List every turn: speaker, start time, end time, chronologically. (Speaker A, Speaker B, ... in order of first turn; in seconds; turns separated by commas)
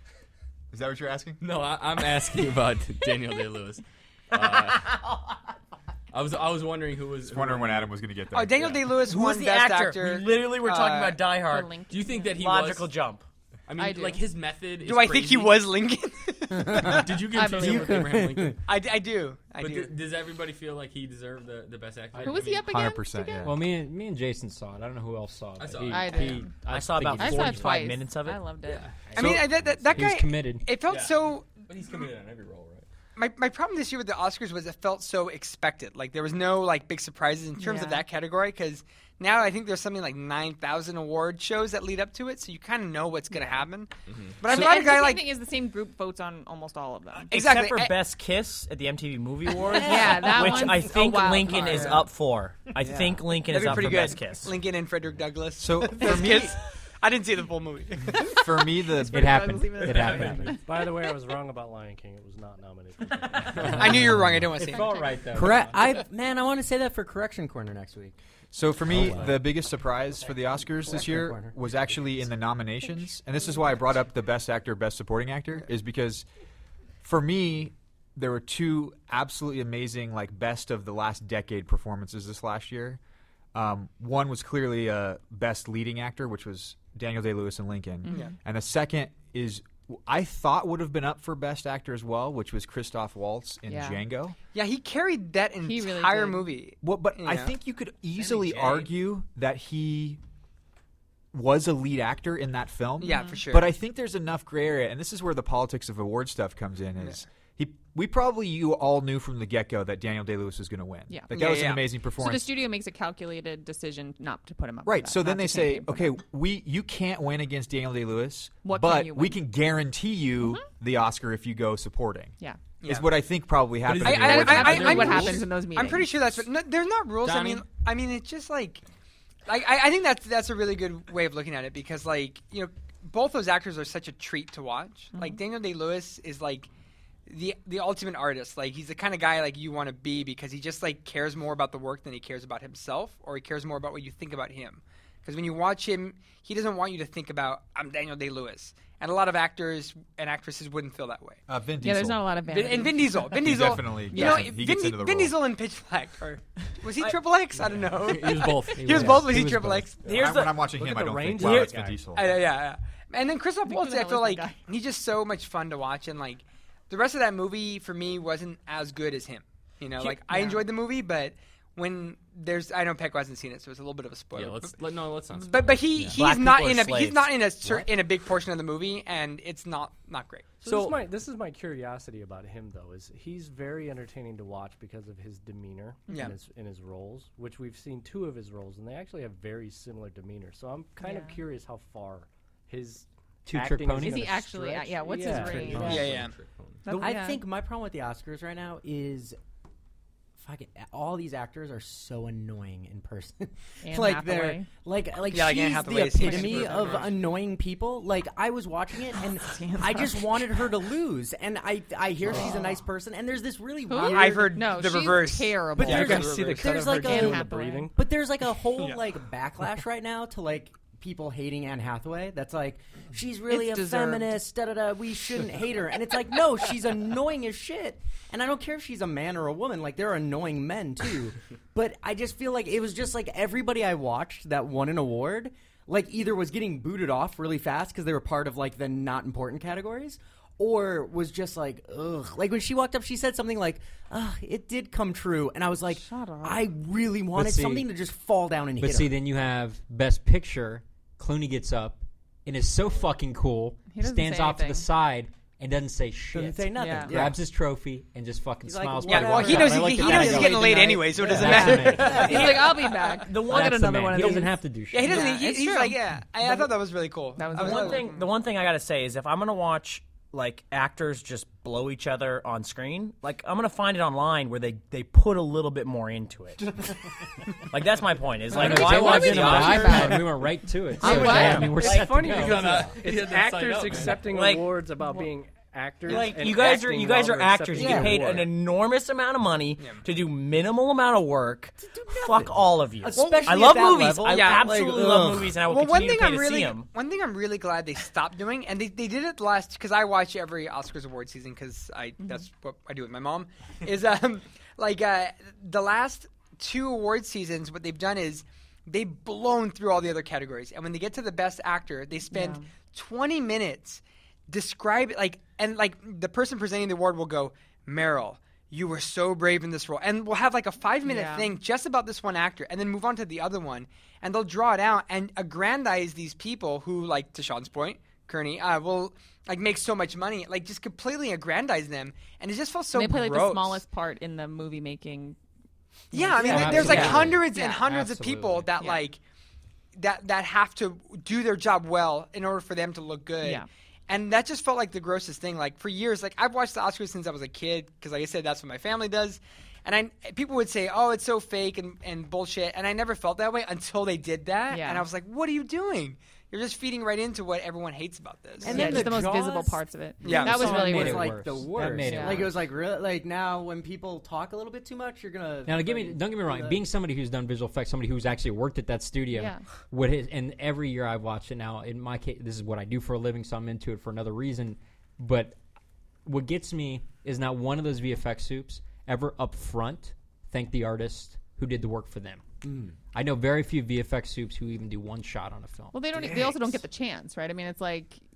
Speaker A: 0.7-1.4, Speaker B: 1.4-5.0, Speaker C: 4.3-5.3, Speaker B: 6.1-7.9, Speaker A: 7.2-8.9, Speaker D: 8.3-11.2, Speaker C: 9.1-11.7, Speaker E: 11.4-12.3, Speaker B: 11.9-12.9, Speaker C: 12.3-13.2, Speaker B: 13.7-15.7, Speaker E: 13.8-14.2, Speaker D: 14.8-17.1, Speaker F: 16.5-18.6, Speaker B: 16.7-18.6, Speaker E: 17.3-18.0, Speaker D: 18.6-19.9, Speaker B: 19.6-22.8, Speaker E: 22.2-23.5, Speaker A: 22.5-23.6, Speaker G: 23.4-27.9, Speaker B: 25.6-26.4, Speaker E: 25.9-26.5, Speaker C: 26.7-28.4, Speaker E: 27.2-28.9, Speaker B: 28.6-28.9, Speaker G: 29.1-30.7, Speaker D: 29.1-31.6, Speaker B: 30.9-32.9, Speaker D: 33.1-45.2, Speaker E: 37.6-38.0, Speaker B: 44.1-44.4, Speaker E: 44.5-47.3, Speaker D: 47.3-48.0, Speaker C: 47.3-54.5, Speaker E: 49.6-52.0, Speaker D: 51.5-52.0, Speaker F: 52.8-54.0, Speaker D: 53.5-58.7, Speaker A: 55.6-56.5, Speaker A: 58.1-59.4, Speaker G: 59.1-60.6, Speaker E: 59.1-60.6, Speaker B: 59.9-60.5, Speaker H: 60.6-64.1, Speaker G: 63.6-66.0, Speaker D: 63.7-65.0, Speaker E: 64.7-65.2, Speaker F: 65.3-68.2, Speaker A: 68.5-76.2, Speaker F: 68.8-69.4, Speaker F: 70.7-71.5, Speaker A: 77.0-83.0, Speaker A: 83.5-94.3, Speaker E: 88.0-88.3, Speaker E: 93.7-94.0, Speaker D: 94.5-97.5, Speaker E: 95.6-96.5, Speaker A: 96.8-100.2, Speaker C: 98.2-98.9, Speaker A: 101.3-112.5, Speaker D: 103.0-103.7, Speaker E: 103.0-103.4, Speaker E: 111.1-116.1, Speaker D: 111.3-111.8, Speaker A: 114.8-125.4, Speaker E: 118.6-119.4, Speaker E: 120.4-120.6, Speaker D: 122.8-123.1, Speaker B: 123.8-125.4, Speaker D: 124.0-128.8, Speaker E: 124.1-126.2, Speaker B: 127.2-127.6, Speaker D: 129.4-136.7, Speaker E: 135.1-135.4, Speaker D: 137.3-151.4, Speaker A: 151.5-152.3, Speaker E: 151.8-153.4, Speaker D: 152.5-160.0, Speaker A: 153.3-155.4, Speaker E: 154.1-154.6, Speaker B: 158.0-159.3, Speaker G: 158.8-159.9, Speaker C: 160.0-160.7, Speaker A: 160.0-162.5, Speaker H: 160.3-162.1, Speaker C: 161.4-161.8, Speaker D: 162.1-174.7, Speaker E: 163.6-164.6, Speaker E: 170.2-170.7, Speaker B: 174.3-176.2, Speaker D: 175.4-180.6, Speaker C: 176.1-177.4, Speaker H: 180.6-196.1, Speaker B: 180.7-181.0, Speaker D: 186.1-186.3, Speaker E: 191.0-191.4, Speaker G: 193.4-194.4, Speaker E: 194.0-196.2, Speaker B: 195.3-196.8, Speaker G: 195.6-196.1, Speaker D: 195.8-196.3, Speaker E: 196.8-197.4, Speaker F: 196.9-199.4, Speaker F: 200.4-214.6, Speaker E: 203.8-204.7, Speaker D: 205.3-207.2, Speaker E: 206.2-206.9, Speaker E: 209.2-210.6, Speaker E: 212.2-212.8, Speaker E: 213.9-216.3, Speaker D: 214.0-216.6, Speaker F: 215.8-249.2, Speaker H: 215.8-217.9, Speaker B: 216.3-216.6, Speaker E: 216.8-217.9, Speaker E: 223.5-224.4, Speaker E: 245.9-246.7, Speaker G: 247.3-247.9, Speaker G: 248.8-262.5, Speaker E: 253.9-254.9, Speaker F: 256.3-257.4, Speaker E: 256.7-257.2, Speaker F: 258.6-262.6, Speaker D: 259.0-263.1, Speaker E: 261.4-266.0, Speaker C: 262.0-264.5, Speaker G: 263.4-265.3, Speaker D: 264.9-268.3, Speaker E: 267.4-268.2, Speaker C: 267.5-276.8, Speaker C: 277.7-280.2, Speaker G: 278.5-282.9, Speaker E: 278.6-280.2, Speaker B: 278.9-279.6, Speaker E: 281.0-281.9, Speaker C: 281.0-282.1, Speaker H: 281.7-288.5, Speaker B: 282.2-284.2, Speaker C: 284.2-284.7, Speaker E: 285.0-285.3, Speaker C: 286.1-296.9, Speaker F: 287.7-288.4, Speaker D: 289.8-290.0, Speaker F: 291.8-295.6, Speaker D: 294.3-295.0, Speaker D: 295.6-333.8, Speaker E: 312.3-312.7, Speaker E: 321.0-321.5, Speaker E: 332.9-335.4, Speaker D: 336.1-339.2, Speaker E: 336.1-337.9, Speaker G: 336.3-338.7, Speaker F: 336.4-337.1, Speaker E: 338.8-339.0, Speaker D: 339.9-359.1, Speaker E: 343.4-343.7, Speaker E: 354.7-355.1, Speaker F: 358.6-366.8, Speaker E: 358.6-361.4, Speaker D: 360.2-360.9, Speaker G: 360.3-362.6, Speaker E: 362.0-362.5, Speaker G: 365.6-375.6, Speaker E: 369.3-369.6, Speaker G: 376.2-382.4, Speaker F: 382.6-383.0, Speaker G: 383.1-386.5, Speaker E: 385.9-388.2, Speaker F: 386.2-386.4